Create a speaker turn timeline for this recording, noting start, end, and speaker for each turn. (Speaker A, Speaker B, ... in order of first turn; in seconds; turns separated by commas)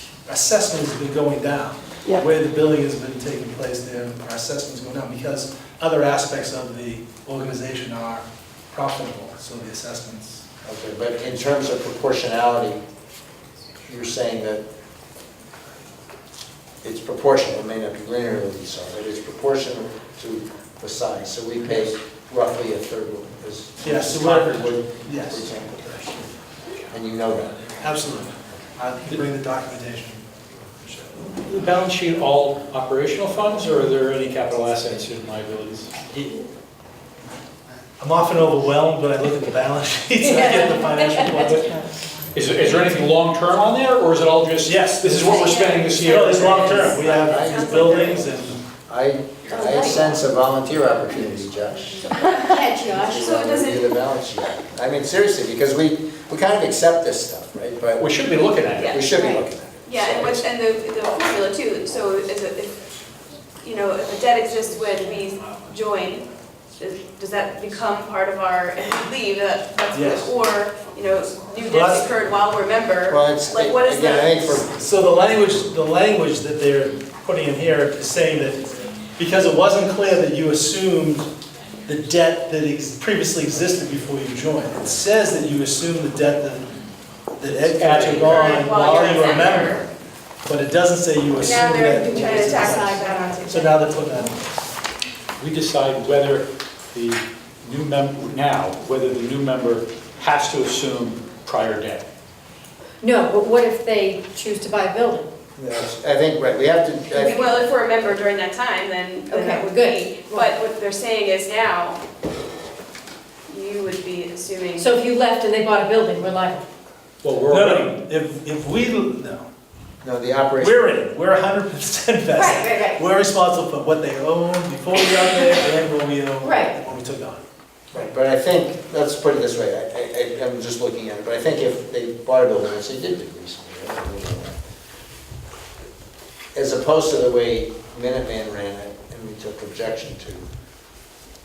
Speaker A: 0.3-10.4, Speaker B: 10.6-12.8, Speaker B: 13.9-14.6, Speaker B: 16.8-26.3, Speaker A: 23.8-26.2, Speaker B: 26.9-27.6, Speaker A: 27.8-31.3, Speaker C: 31.4-35.9, Speaker A: 38.0-41.9, Speaker D: 40.2-42.0, Speaker C: 42.3-47.0, Speaker A: 44.7-48.6, Speaker D: 45.3-46.8, Speaker B: 47.1-52.2, Speaker D: 47.4-48.1, Speaker D: 49.5-50.1, Speaker D: 52.1-53.2, Speaker E: 52.1-53.9, Speaker B: 52.9-58.1, Speaker C: 58.0-59.2, Speaker E: 58.7-59.1, Speaker B: 58.9-60.5, Speaker D: 59.1-59.4, Speaker E: 59.8-62.9, Speaker E: 63.6-66.3, Speaker E: 66.8-74.4, Speaker A: 69.9-70.3, Speaker A: 71.6-72.2, Speaker B: 73.1-75.3, Speaker A: 74.7-81.3, Speaker A: 81.9-86.8, Speaker A: 87.4-89.8, Speaker C: 87.7-88.7, Speaker E: 88.2-89.9, Speaker A: 90.5-94.6, Speaker E: 91.4-93.6, Speaker D: 92.0-94.3, Speaker C: 95.4-102.1, Speaker D: 103.0-105.3, Speaker B: 105.6-107.6, Speaker E: 107.1-112.0, Speaker D: 109.3-110.5, Speaker E: 113.5-114.9, Speaker D: 114.8-116.6, Speaker C: 117.2-118.0, Speaker A: 117.5-119.5, Speaker B: 120.0-120.9, Speaker A: 120.6-127.4, Speaker D: 122.3-123.1, Speaker D: 126.4-126.8, Speaker B: 127.9-134.6, Speaker B: 136.5-140.5